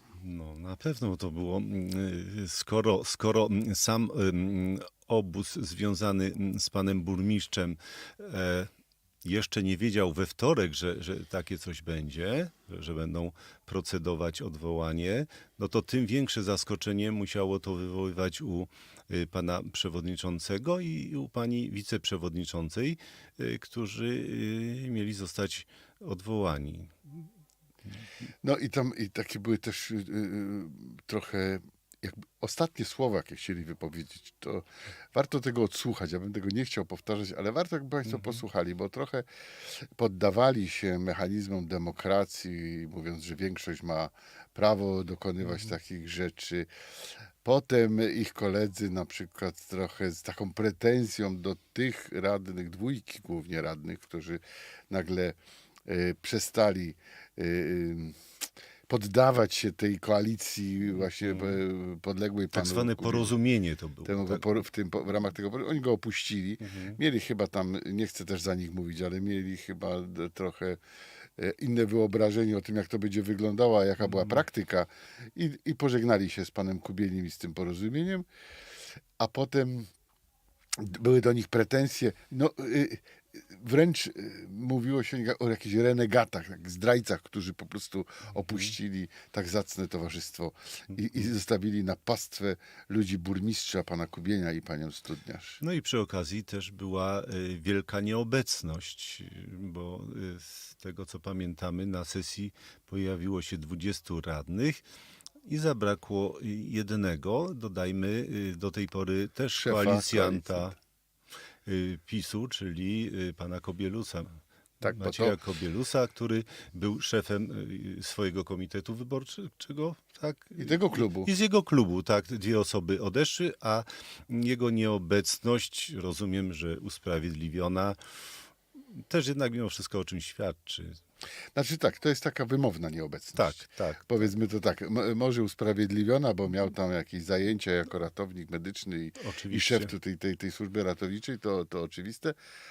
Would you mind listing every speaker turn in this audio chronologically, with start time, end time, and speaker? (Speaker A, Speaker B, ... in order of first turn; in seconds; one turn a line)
Speaker A: 0.1-8.7
Speaker A: 9.2-27.3
Speaker B: 28.4-46.7
Speaker A: 38.1-38.4
Speaker A: 45.4-45.8
Speaker B: 47.4-58.2
Speaker B: 58.9-63.4
Speaker A: 61.0-61.6
Speaker A: 62.5-64.4
Speaker B: 64.0-70.8
Speaker A: 66.6-67.0
Speaker B: 71.4-78.2
Speaker A: 74.0-74.4
Speaker B: 79.2-79.9
Speaker B: 80.8-95.6
Speaker A: 88.5-88.7
Speaker A: 95.6-104.8
Speaker A: 105.5-110.7
Speaker B: 109.5-110.7
Speaker A: 111.7-128.0
Speaker B: 114.8-115.4
Speaker B: 120.6-121.3
Speaker A: 128.9-131.0
Speaker B: 131.6-142.4
Speaker A: 133.3-134.3
Speaker A: 139.2-139.9